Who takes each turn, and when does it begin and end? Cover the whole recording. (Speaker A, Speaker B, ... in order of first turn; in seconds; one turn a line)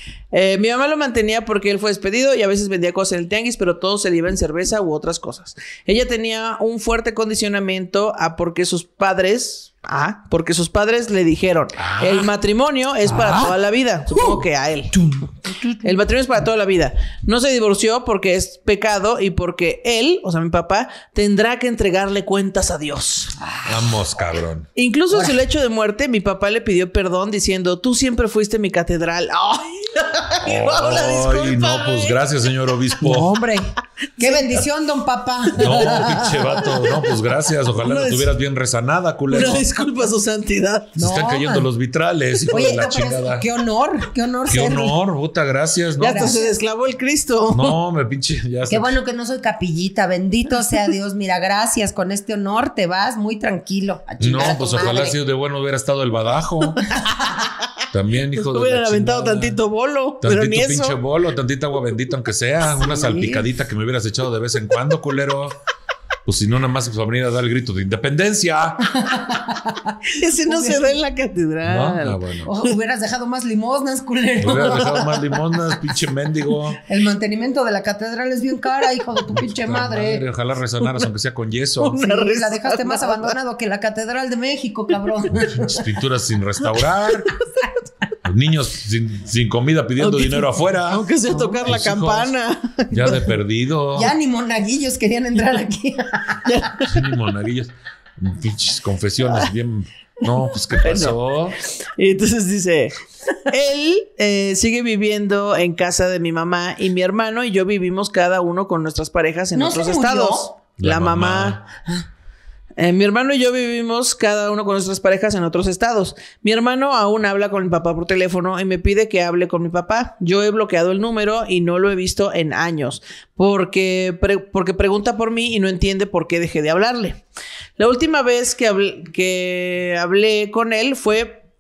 Speaker A: 0.3-14.9
Speaker B: 11.8-12.3
Speaker C: 14.9-15.9
Speaker A: 15.8-23.3
Speaker C: 23.4-23.9
Speaker B: 23.6-24.7
Speaker A: 24.8-32.4
Speaker C: 25.1-25.4
Speaker B: 30.4-33.4
Speaker C: 33.0-36.9
Speaker A: 34.2-34.6
Speaker B: 35.6-39.7
Speaker A: 35.6-37.1
Speaker A: 37.7-38.3
Speaker A: 39.3-41.0
Speaker C: 41.0-41.7
Speaker B: 41.0-43.5
Speaker C: 42.5-44.9
Speaker B: 44.5-46.4
Speaker A: 46.0-47.8
Speaker C: 46.0-46.5
Speaker B: 47.5-48.9
Speaker C: 48.7-55.2
Speaker B: 54.2-56.8
Speaker A: 56.9-57.5
Speaker B: 57.9-59.6
Speaker A: 58.3-61.0
Speaker B: 60.2-65.6
Speaker C: 62.6-63.5
Speaker B: 66.2-69.0
Speaker C: 68.9-71.0
Speaker A: 70.1-72.7
Speaker B: 71.6-72.5
Speaker C: 72.4-75.5
Speaker B: 74.4-76.8
Speaker C: 76.8-80.2
Speaker B: 79.3-82.0
Speaker A: 81.8-83.3
Speaker C: 82.0-85.8
Speaker B: 85.3-87.3
Speaker B: 88.2-92.3
Speaker A: 90.0-93.3
Speaker C: 91.3-91.6
Speaker B: 92.9-94.1
Speaker C: 93.9-96.7
Speaker A: 96.4-97.1
Speaker B: 96.8-101.6
Speaker A: 100.8-111.6
Speaker C: 109.5-110.5
Speaker B: 110.8-111.6
Speaker A: 112.8-127.2
Speaker A: 127.8-131.4